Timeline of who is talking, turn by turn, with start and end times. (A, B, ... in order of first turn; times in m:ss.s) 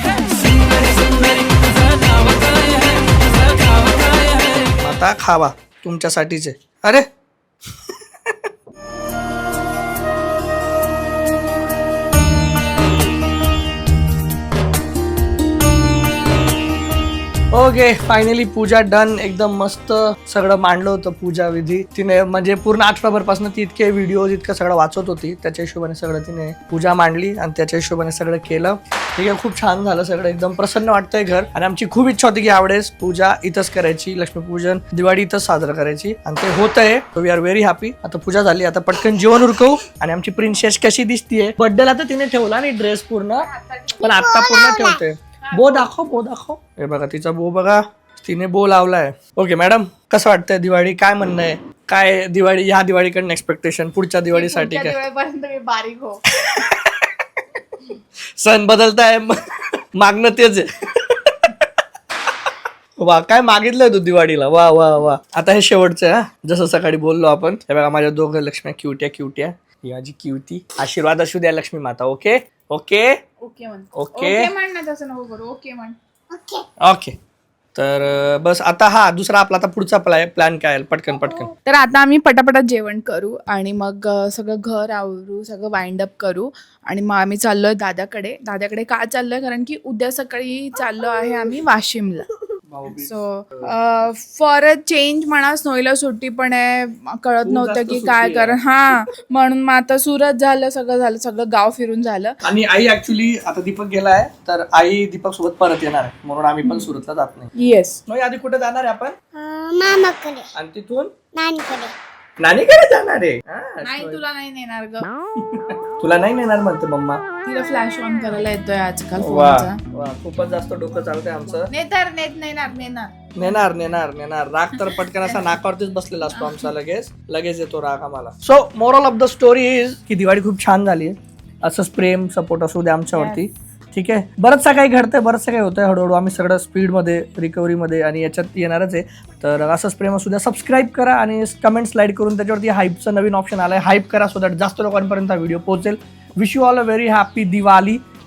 0:00.6-0:04.4 A
0:04.6-0:07.1 B
0:07.9-0:08.4 B
0:17.5-0:55.0 B
0:43.4-0:44.3 A
0:44.1-0:45.0 C
0:45.4-0:45.9 A
0:54.3-0:56.2 A
0:56.3-0:57.1 B
0:58.4-0:59.4 B
1:00.0-1:01.7 B
1:03.0-1:13.2 B
1:13.4-1:16.0 A
1:13.9-1:14.5 B
1:16.3-1:16.7 C
1:16.8-1:17.2 B
1:17.8-1:21.5 B
1:21.6-1:32.3 A
1:32.7-1:33.7 B
1:32.9-1:42.4 A
1:37.4-1:38.6 B
1:42.4-1:47.5 B
1:46.6-1:46.9 A
1:47.6-1:48.0 A
1:48.1-1:49.2 B
1:49.3-1:50.5 C
1:50.5-1:51.1 B
1:51.3-1:51.9 C
1:52.4-1:54.2 B
1:53.8-1:55.1 A
1:55.5-1:57.2 B
1:57.5-1:59.8 A
1:59.2-2:01.7 B
2:01.6-2:03.8 A
2:03.4-2:28.0 B
2:04.8-2:05.6 A
2:06.3-2:06.7 A
2:13.1-2:13.4 A